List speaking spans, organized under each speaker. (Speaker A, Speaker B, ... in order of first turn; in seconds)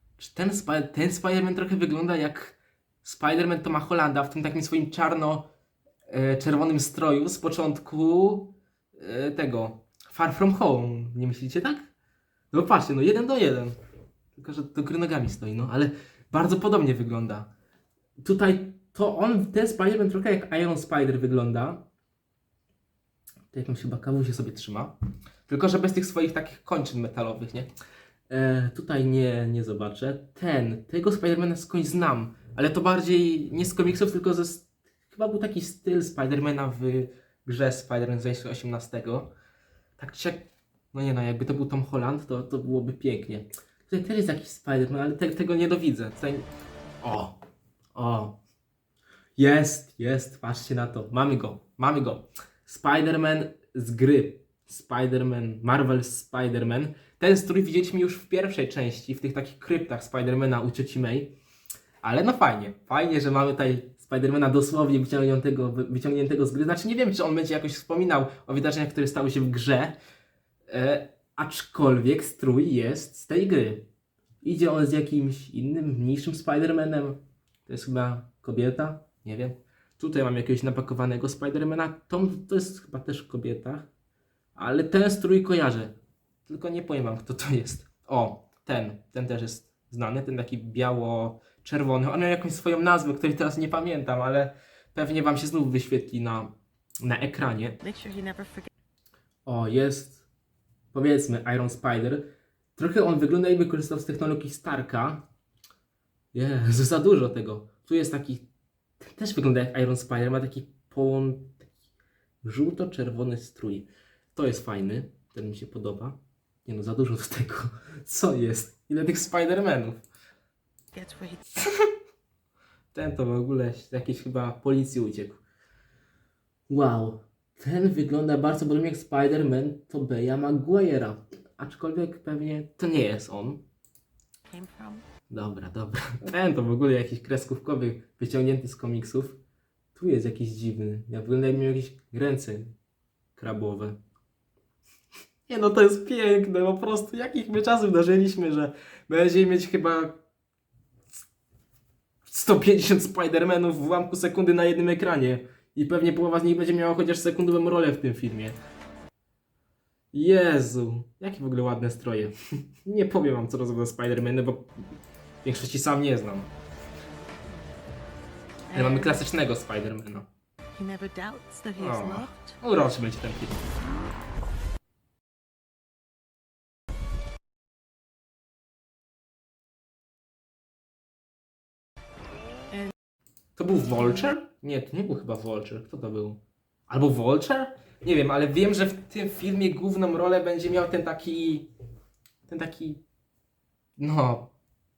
Speaker A: 0.2-5.5, 6.1-11.9, 12.5-13.8, 14.3-17.5, 18.2-21.9, 23.5-24.9, 25.5-27.7, 28.3-39.3, 40.0-46.5, 47.0-47.4, 47.9-48.4, 49.4-61.3, 62.0-70.0, 70.7-73.9, 74.4-83.9, 84.5-85.9, 86.5-97.8, 99.5-100.2, 100.9-105.2, 106.3-108.5, 109.0-111.7, 112.4-120.0, 122.9-125.4, 126.7-133.6, 135.3-139.4, 139.9-142.7, 143.3-144.0, 145.5-150.2, 152.2-158.6, 160.1-164.8, 165.4-166.5, 168.7-170.3, 171.8-173.6, 183.6-191.7, 192.4-193.0, 194.0-194.5
Speaker B: 97.8-98.7, 120.9-121.5, 134.5-135.1, 168.7-169.2, 170.7-172.6